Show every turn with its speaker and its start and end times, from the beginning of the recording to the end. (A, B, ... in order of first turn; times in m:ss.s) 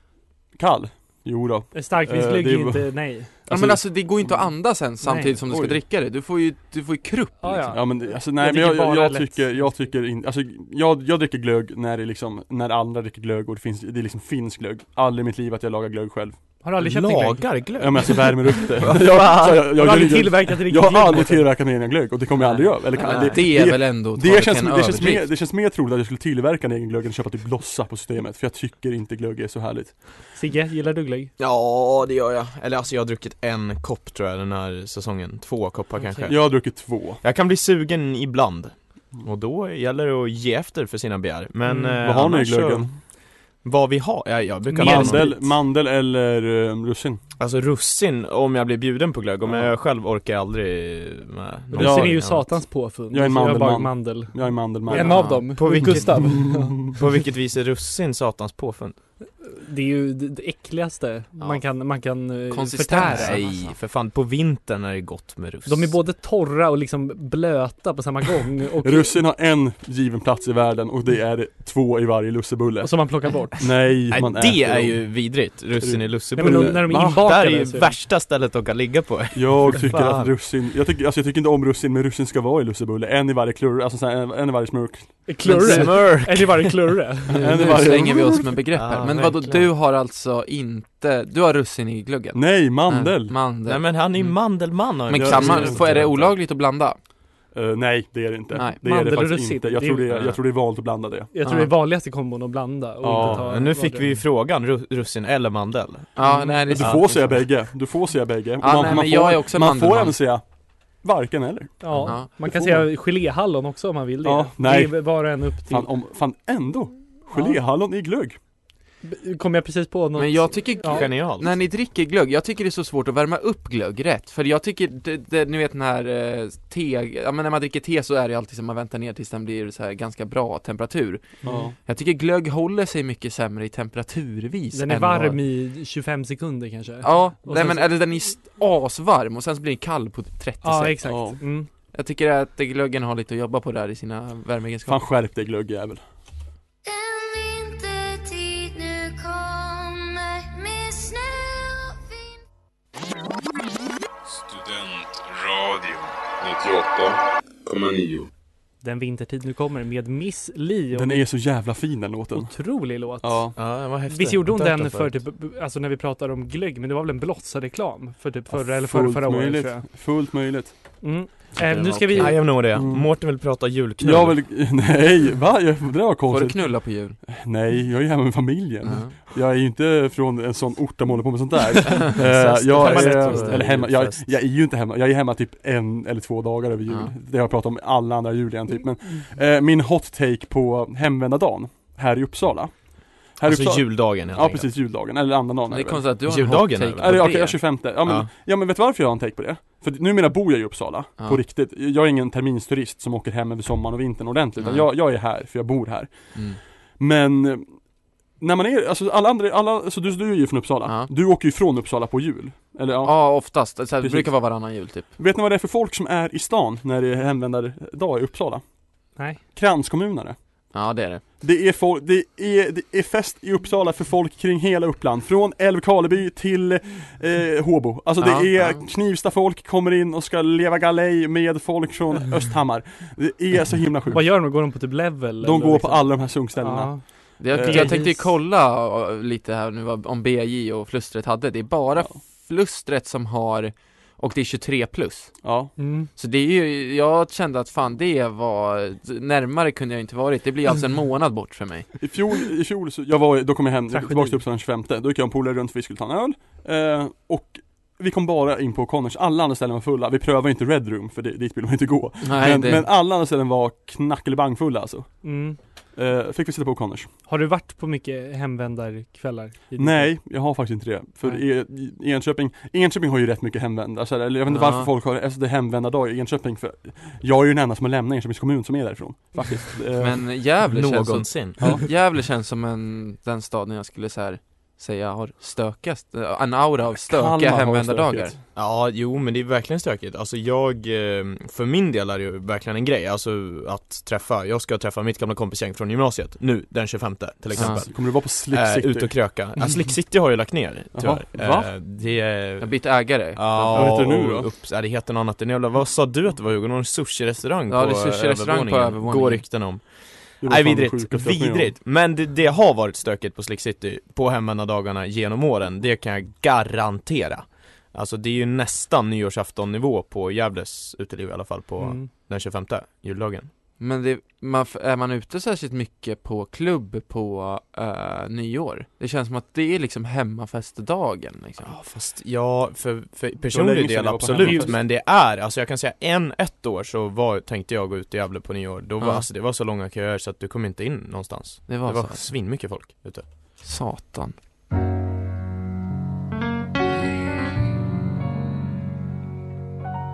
0:00.5-0:04.5 A
0:01.7-0:03.3 B
0:03.5-0:07.7 C
0:05.0-0:05.4 B
0:05.5-0:05.8 A
0:07.4-0:09.7 B
0:07.7-0:16.4 A
0:16.6-0:17.5 B
0:16.8-0:20.1 D
0:17.8-0:30.3 A
0:19.7-0:21.5 B
0:22.4-0:25.3 C
0:23.0-0:23.4 D
0:30.3-0:31.3 B
0:31.4-0:45.5 D
0:36.0-0:36.3 B
0:36.2-0:37.2 A
0:41.6-0:42.0 B
0:42.0-0:43.0 A
0:44.6-0:45.4 B
0:44.8-0:47.2 A
0:47.4-0:52.6 D
0:49.4-0:49.7 A
0:51.7-0:57.0 B
0:51.8-0:52.5 A
0:53.1-0:56.9 A
0:54.9-0:59.0 D
0:55.0-0:55.4 C
0:59.4-1:03.4 B
1:02.5-1:03.7 C
1:03.0-1:06.0 D
1:05.6-1:09.2 B
1:08.8-1:17.2 A
1:12.8-1:13.6 B
1:14.1-1:20.4 D
1:16.4-1:18.0 B
1:19.3-1:25.4 A
1:25.3-1:27.6 B
1:25.4-1:27.0 D
1:27.3-1:28.5 A
1:27.3-1:37.0 C
1:28.7-1:29.7 D
1:32.3-1:33.4 A
1:33.6-1:36.3 D
1:35.1-1:36.2 A
1:37.5-1:41.3 A
1:38.8-1:40.2 B
1:41.3-1:44.2 B
1:41.4-1:41.7 C
1:43.0-1:43.4 A
1:43.2-1:47.4 D
1:46.2-1:47.5 C
1:46.2-1:52.9 A
1:48.6-1:50.2 C
1:51.8-1:55.9 B
1:52.0-1:52.3 C
1:54.2-1:58.4 A
1:57.3-1:57.6 B
1:59.0-2:01.1 B
2:00.2-2:15.4 C
2:00.9-2:01.6 D
2:11.4-2:11.7 B
2:11.4-2:11.7 A
2:14.7-2:17.9 B
2:17.0-2:21.3 C
2:20.6-2:21.7 B
2:21.0-2:21.4 A
2:21.9-2:25.0 C
2:24.9-2:26.0 A
2:26.8-2:32.4 E
2:34.2-2:38.3 F
2:38.8-2:41.2 B
2:40.9-2:42.6 A
2:42.3-2:49.8 B
2:43.2-2:43.6 A
2:43.6-2:45.2 D
2:48.5-2:50.8 A
2:51.0-2:52.6 B
2:51.6-2:52.4 C
2:52.1-2:54.4 D
2:52.7-3:16.2 A
2:56.3-2:57.2 C
2:58.8-2:59.2 C
3:02.1-3:04.3 D
3:02.6-3:03.7 B
3:06.9-3:07.1 C
3:13.4-3:14.7 D
3:15.7-3:17.6 C
3:16.2-3:18.3 D
3:17.0-3:40.4 A
3:24.6-3:24.9 C
3:26.3-3:26.6 C
3:30.8-3:31.1 C
3:33.0-3:35.1 C
3:39.2-3:39.4 B
3:40.7-3:41.2 C
3:41.4-3:54.8 A
3:48.2-3:48.8 C
3:54.1-3:58.3 B
3:55.4-3:58.0 A
3:57.4-4:05.4 C
4:05.4-4:05.7 A
4:05.8-4:06.1 B
4:06.1-4:12.0 C
4:12.0-4:27.1 A
4:13.9-4:14.4 B
4:22.2-4:22.9 C
4:25.2-4:25.6 B
4:27.2-4:30.2 B
4:29.8-4:40.2 A
4:34.5-4:34.9 C
4:40.0-4:48.3 C
4:40.6-4:41.7 D
4:47.0-4:48.4 A
4:48.5-5:23.5 D
4:57.5-4:59.4 A
4:57.6-4:57.8 C
5:00.9-5:01.7 A
5:02.6-5:04.1 C
5:03.7-5:04.5 A
5:07.7-5:09.5 C
5:10.4-5:11.7 A
5:21.8-5:22.1 B
5:23.8-5:31.8 C
5:31.6-5:43.3 D
5:33.5-5:34.8 A
5:34.4-5:34.8 B
5:39.0-5:39.2 C
5:41.7-5:42.3 C
5:43.6-5:44.4 C